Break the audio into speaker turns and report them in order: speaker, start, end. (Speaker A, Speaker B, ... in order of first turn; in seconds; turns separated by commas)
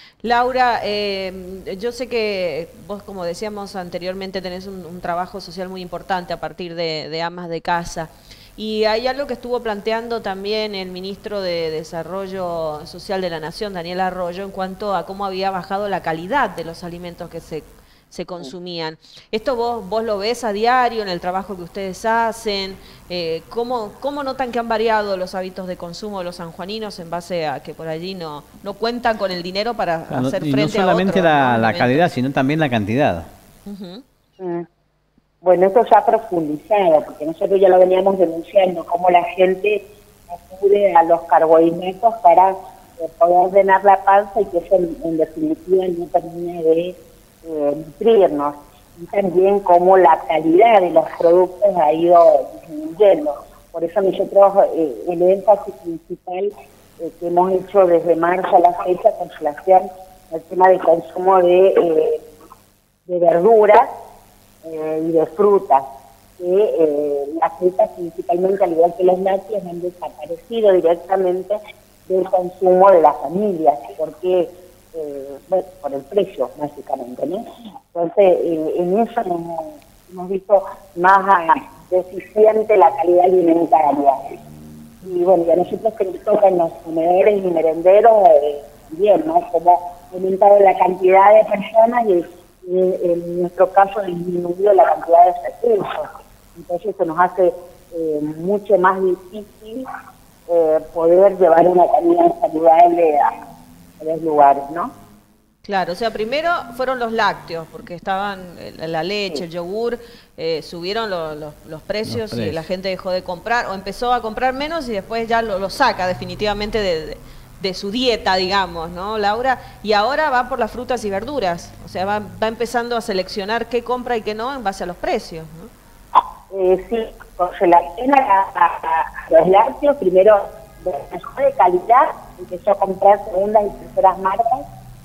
Speaker A: 0.2-32.1, Speaker B: 30.1-33.3, Speaker A: 33.6-34.0, Speaker C: 34.4-34.6, Speaker C: 35.4-62.2, Speaker C: 63.1-63.9, Speaker C: 64.6-65.8, Speaker C: 66.4-84.2, Speaker C: 85.0-99.8, Speaker C: 100.5-103.3, Speaker C: 104.0-104.9, Speaker A: 105.6-125.7, Speaker B: 112.1-112.6, Speaker C: 126.5-134.6